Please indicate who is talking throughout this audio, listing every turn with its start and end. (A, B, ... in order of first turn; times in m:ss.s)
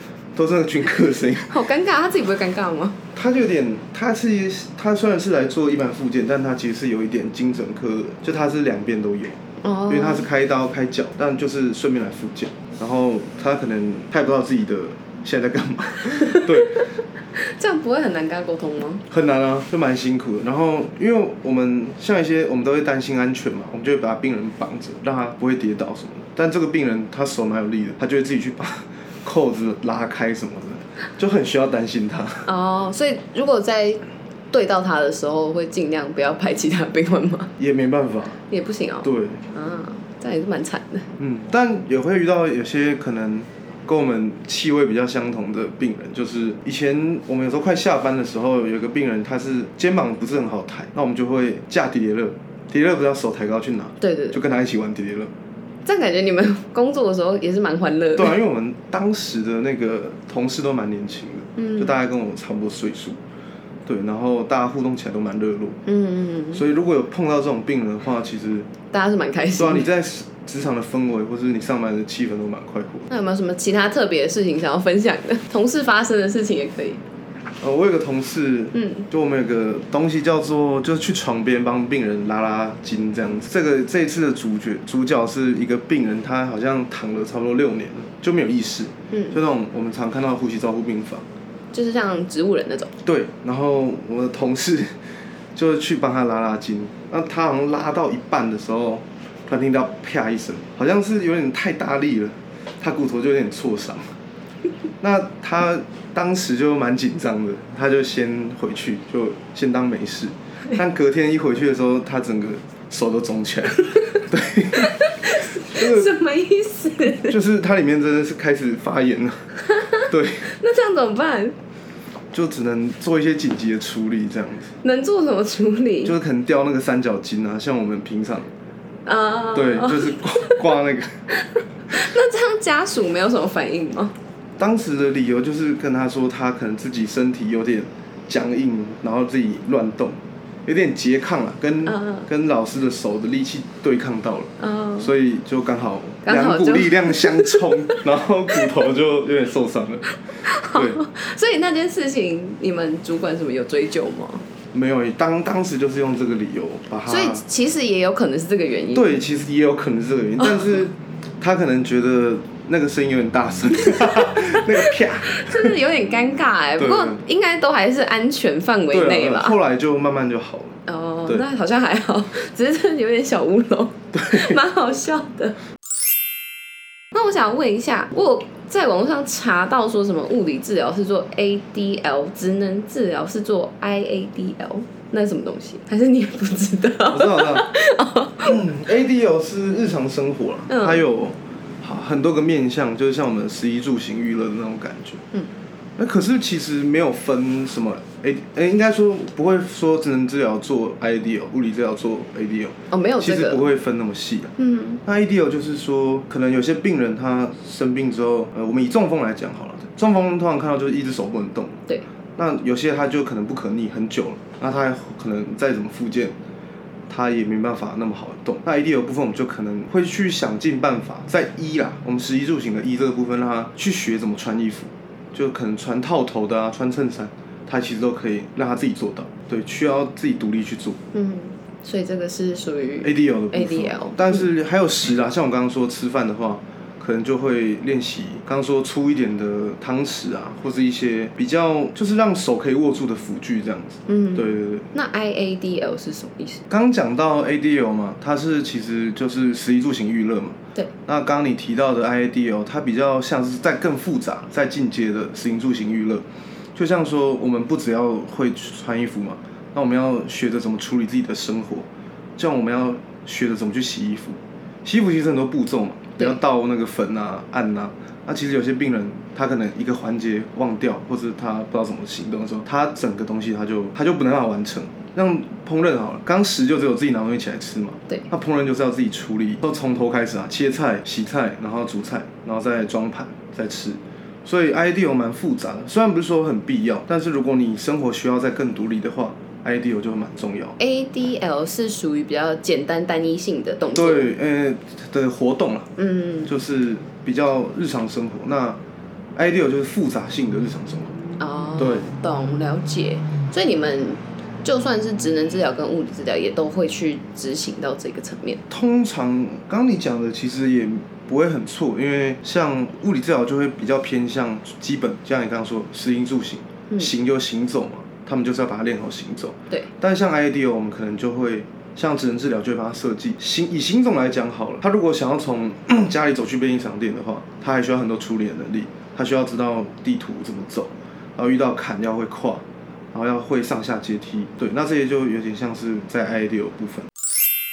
0:00.4-0:01.5 A
0:01.5-0:03.0 B
0:03.1-0:16.8 A
0:09.6-0:10.3 B
0:16.0-0:19.0 B
0:19.1-0:32.5 A
0:32.4-0:37.5 B
0:37.6-0:38.4 A
0:38.5-0:41.1 B
0:39.0-0:39.4 A
0:41.2-0:55.3 A
0:54.0-0:54.4 B
0:55.9-0:58.4 B
0:58.2-1:03.2 A
1:01.6-1:02.0 B
1:03.9-1:05.8 A
1:05.9-1:06.6 B
1:06.5-1:08.7 A
1:08.9-1:09.9 B
1:09.6-1:13.1 A
1:13.1-1:17.0 B
1:17.6-1:31.2 A
1:18.7-1:19.1 B
1:29.1-1:29.4 B
1:31.7-1:32.9 B
1:33.0-1:35.0 A
1:35.6-1:44.0 A
1:45.0-1:54.9 A
1:54.8-1:57.4 B
1:55.6-1:56.1 A
1:57.2-1:59.4 A
1:59.7-2:01.6 B
2:00.1-2:00.5 A
2:02.3-2:04.7 A
2:04.8-2:06.2 B
2:06.0-2:08.5 A
2:09.0-2:10.6 B
2:09.5-2:11.2 A
2:11.4-2:14.1 B
2:14.6-2:30.0 A
2:21.9-2:22.3 B
2:24.6-2:25.1 B
2:26.2-2:28.0 B
2:30.4-2:34.4 B
2:30.7-2:31.0 A
2:34.7-2:37.4 A
2:37.1-2:39.2 B
2:39.0-2:45.8 A
2:40.4-2:40.7 B
2:43.9-2:49.6 B
2:46.8-2:47.2 A
2:48.9-2:51.4 A
2:50.9-2:55.6 B
2:54.1-2:54.6 A
2:57.1-3:08.6 B
3:07.1-3:07.7 A
3:08.4-3:15.2 A
3:10.7-3:11.0 B
3:16.0-3:24.5 A
3:22.9-3:23.6 B
3:24.6-3:25.0 B
3:25.0-3:31.8 A
3:32.4-3:36.4 A
3:37.1-3:51.0 A
3:51.1-3:54.5 B
3:53.0-4:04.9 A
4:04.1-4:06.6 B
4:06.7-4:50.8 A
4:50.8-4:54.3 B
4:54.0-4:55.9 A
4:56.0-4:56.5 B
4:56.5-4:58.8 A
4:59.4-5:01.2 A
5:01.4-5:08.6 B
5:01.8-5:02.1 A
5:08.7-5:37.1 A